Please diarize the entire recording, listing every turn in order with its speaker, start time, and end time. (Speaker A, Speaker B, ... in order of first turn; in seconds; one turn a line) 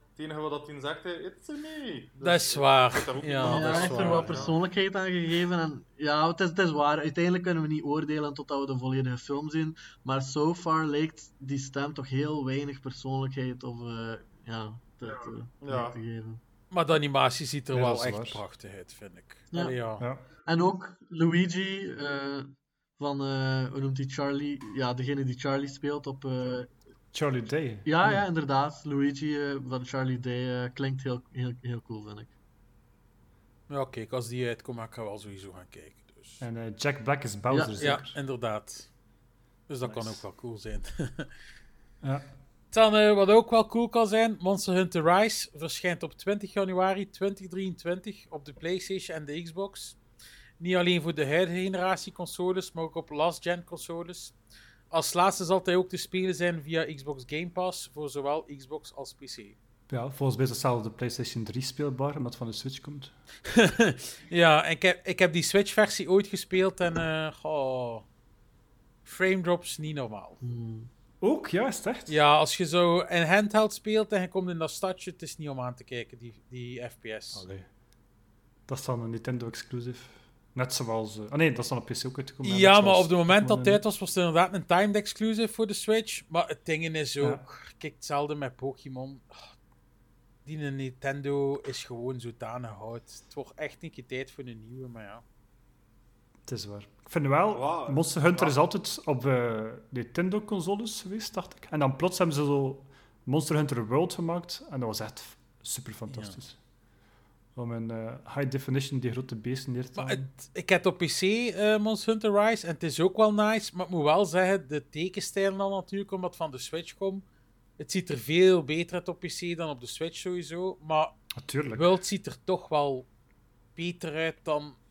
Speaker A: 0.1-4.6
Speaker B: 2.2-4.5
Speaker C: 3.5-16.4
Speaker A: 15.6-16.0
Speaker B: 16.7-20.0
Speaker D: 17.7-18.4
Speaker C: 19.5-19.8
Speaker D: 20.0-20.2
Speaker C: 20.4-26.7
Speaker D: 27.1-28.2
Speaker C: 27.8-32.3
Speaker B: 33.7-36.4
Speaker D: 36.4-38.2
Speaker C: 37.5-38.0
Speaker B: 37.8-38.9
Speaker B: 39.7-41.3
Speaker D: 39.8-40.2
Speaker D: 42.0-42.3
Speaker B: 42.7-50.0
Speaker B: 50.6-54.3
Speaker B: 54.9-59.5
Speaker D: 59.9-63.1
Speaker B: 63.5-68.1
Speaker B: 69.0-70.4
Speaker C: 70.4-70.9
Speaker D: 71.2-72.2
Speaker B: 72.1-77.4
Speaker D: 77.3-77.7
Speaker D: 78.7-83.8
Speaker B: 82.4-89.5
Speaker B: 90.4-95.2
Speaker D: 96.5-106.6
Speaker A: 97.5-98.6
Speaker B: 106.1-106.4
Speaker D: 107.5-110.3
Speaker B: 110.0-117.2
Speaker B: 117.8-121.1
Speaker D: 121.4-121.9
Speaker B: 121.7-123.1
Speaker B: 123.8-124.8